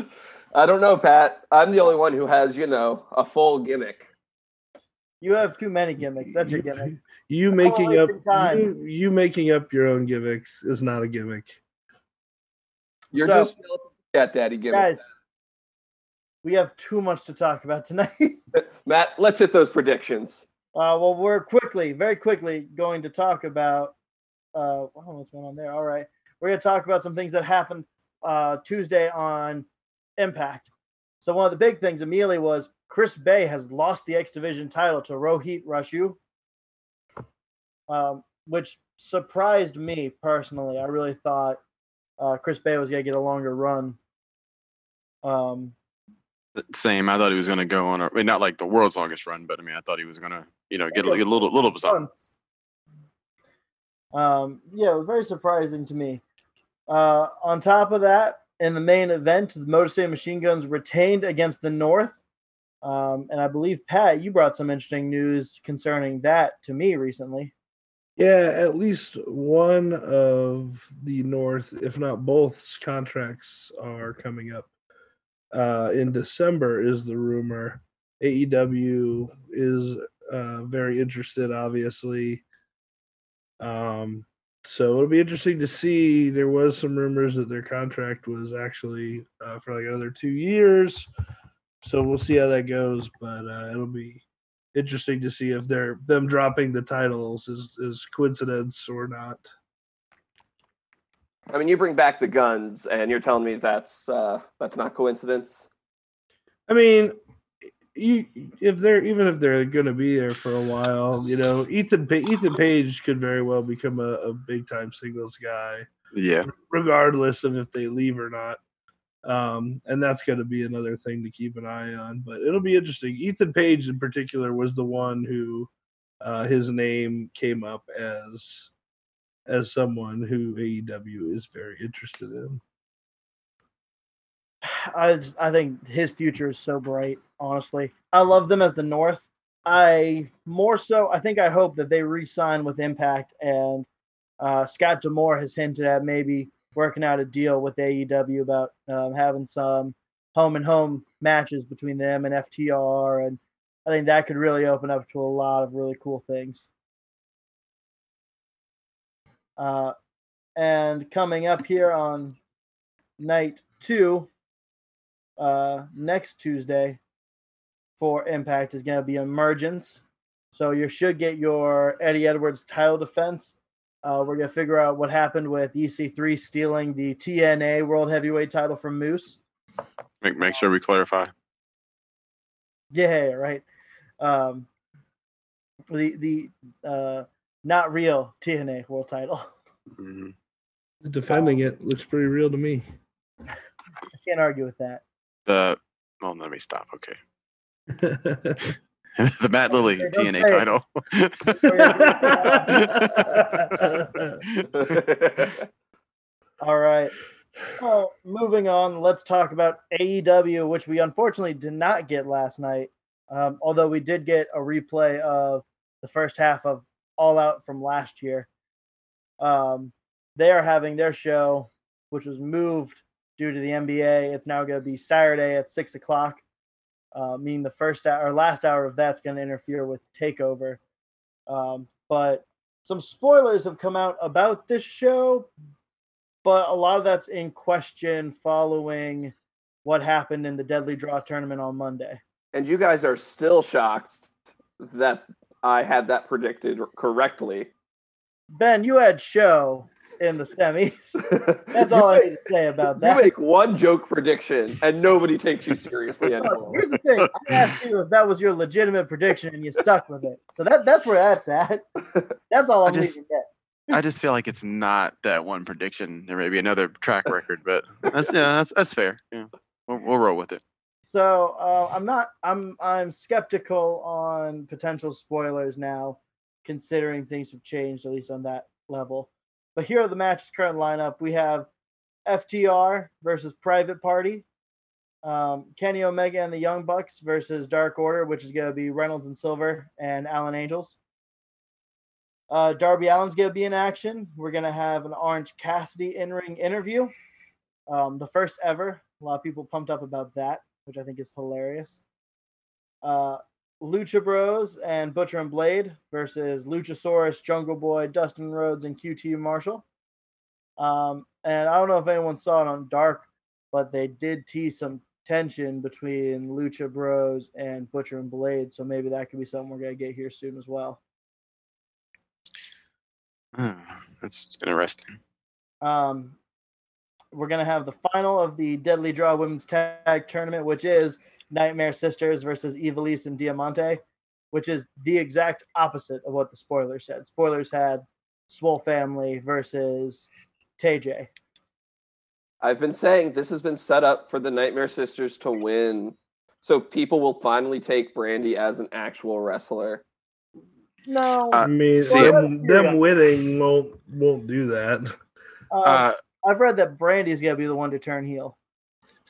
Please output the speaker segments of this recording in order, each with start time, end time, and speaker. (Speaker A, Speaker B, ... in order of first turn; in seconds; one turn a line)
Speaker A: 0.5-4.1
Speaker B: 5.2-6.9
Speaker C: 6.2-11.6
Speaker B: 7.5-8.7
Speaker B: 13.1-13.5
Speaker A: 13.1-15.0
Speaker B: 14.7-15.0
Speaker B: 16.4-18.4
Speaker A: 18.8-20.5
Speaker B: 20.7-23.9
Speaker B: 24.5-29.7
Speaker B: 30.2-30.7
Speaker B: 31.2-36.2
Speaker B: 37.9-41.6
Speaker B: 42.2-44.0
Speaker B: 45.2-45.8
Speaker D: 46.6-52.0
Speaker B: 50.9-52.3
Speaker B: 54.1-56.2
Speaker B: 56.9-62.2
Speaker B: 62.8-67.5
Speaker C: 68.2-74.7
Speaker C: 75.5-82.4
Speaker C: 83.6-91.1
Speaker C: 91.8-94.2
Speaker C: 94.7-99.5
Speaker A: 101.5-105.7
Speaker C: 106.7-107.2
Speaker C: 107.9-115.9
Speaker D: 116.1-116.5
Speaker C: 116.5-118.6
Speaker C: 119.2-125.7
Speaker C: 126.2-128.7
Speaker C: 129.5-132.6
Speaker B: 134.6-143.9
Speaker B: 144.4-156.7
Speaker B: 159.6-159.9
Speaker B: 160.6-162.4
Speaker B: 163.2-164.3
Speaker B: 165.4-167.0
Speaker B: 168.0-179.4
Speaker D: 180.2-181.3
Speaker B: 182.9-183.6
Speaker B: 184.2-184.7
Speaker B: 185.9-189.5
Speaker D: 190.0-190.3
Speaker C: 191.0-192.9
Speaker B: 191.3-191.6
Speaker B: 194.1-195.0
Speaker D: 195.5-197.2
Speaker C: 198.0-198.8
Speaker D: 199.2-201.9
Speaker B: 199.7-200.7
Speaker B: 201.5-203.1
Speaker C: 201.9-204.4
Speaker D: 202.7-203.3
Speaker D: 204.5-204.9
Speaker A: 204.7-205.6
Speaker B: 206.6-218.5
Speaker B: 219.4-226.4
Speaker B: 227.1-230.8
Speaker B: 231.5-235.5
Speaker B: 236.4-239.3
Speaker B: 239.8-242.2
Speaker A: 242.5-244.2
Speaker A: 244.8-247.7
Speaker B: 248.5-253.2
Speaker A: 251.3-252.3
Speaker A: 252.9-256.8
Speaker B: 256.4-261.8
Speaker B: 262.5-264.0
Speaker D: 262.9-263.2
Speaker D: 263.9-270.6
Speaker B: 271.1-281.7
Speaker B: 282.3-284.4
Speaker B: 285.2-291.0
Speaker B: 292.5-297.1
Speaker B: 297.9-302.0
Speaker B: 303.0-309.9
Speaker B: 310.8-321.0
Speaker D: 323.6-325.1
Speaker B: 325.8-326.4
Speaker B: 327.3-341.3
Speaker A: 342.6-350.0
Speaker B: 351.1-353.0
Speaker D: 351.5-352.4
Speaker C: 351.6-355.1
Speaker B: 355.7-358.6
Speaker D: 355.8-356.2